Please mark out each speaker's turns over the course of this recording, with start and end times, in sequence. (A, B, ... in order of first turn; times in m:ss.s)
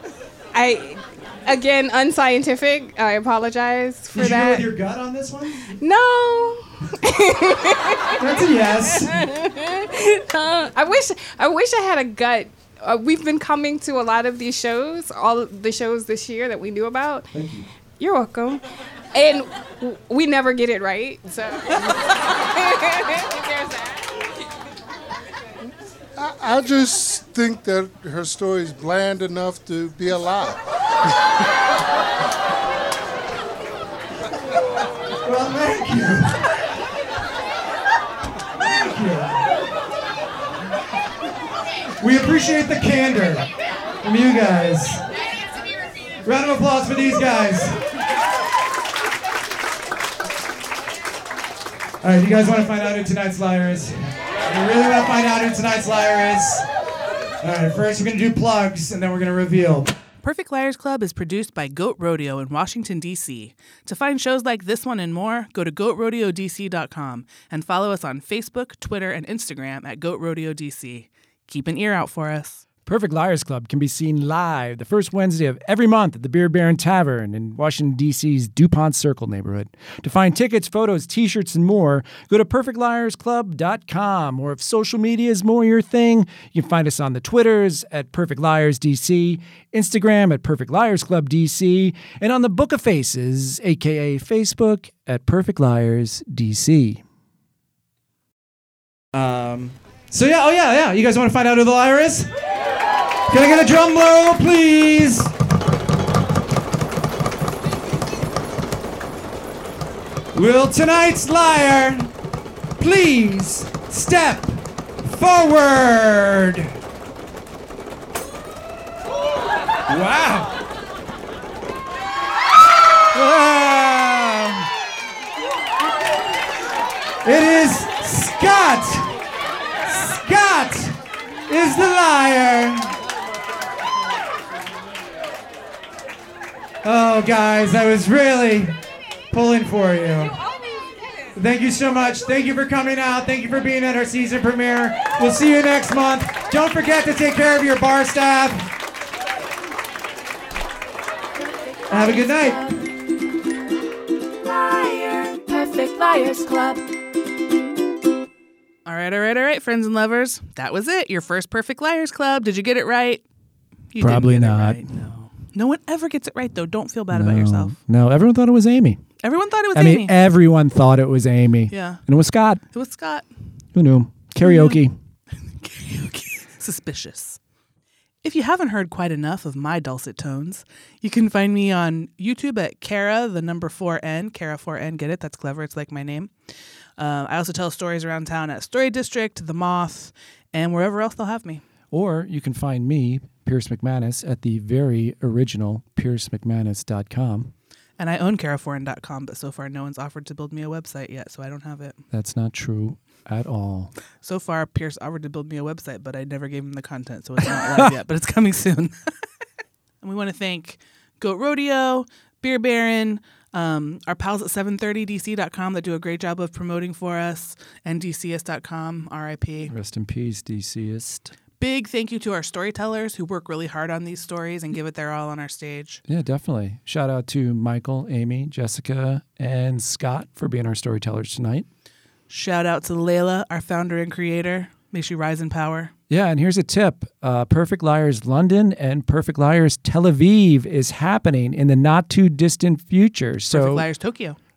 0:00.5-0:04.6 A
0:04.1-0:05.7 B
0:05.6-0:08.2 A
0:08.2-0:09.2 B
0:08.9-0:17.3 A
0:17.3-0:17.7 B
0:18.0-0:24.0 A
0:26.2-0:30.6 C
0:35.2-0:36.6 B
0:38.6-0:39.6 B
0:42.0-0:43.5 B
0:44.0-0:45.0 B
0:46.2-0:47.8 B
0:52.0-0:56.7 B
0:57.4-0:59.9 B
1:00.2-1:12.6 D
1:12.8-1:37.0 E
1:39.1-1:42.3 B
1:43.3-1:45.3 B
1:50.3-1:52.1 B
1:52.8-1:56.7 B
1:59.9-2:00.6 B
2:03.1-2:04.7 B
2:07.2-2:09.2 B
2:09.8-2:13.0 B
2:16.8-2:18.8 B
2:19.3-2:20.4 B
2:21.3-2:28.7 B
2:31.7-2:32.8 F
2:31.9-2:32.6 B
2:34.4-2:36.9 F
2:38.8-2:43.2 D
2:43.9-2:47.8 D
2:44.0-2:44.8 E
2:47.1-2:49.0 E
2:49.2-2:50.2 D
2:49.7-2:52.7 E
2:51.7-2:52.1 D
2:52.7-2:53.3 D
2:53.7-2:55.0 E
2:54.4-2:54.8 D
2:55.3-2:57.4 D
2:58.2-3:11.6 D
3:11.9-3:17.5 E
3:18.0-3:22.0 D
3:22.1-3:23.9 E
3:24.2-3:29.2 D
3:30.0-3:39.7 D
3:39.7-3:41.3 E
3:41.6-3:46.0 D
3:46.1-3:51.7 E
3:52.3-3:55.9 D
3:56.1-4:03.9 E
4:03.4-4:04.4 D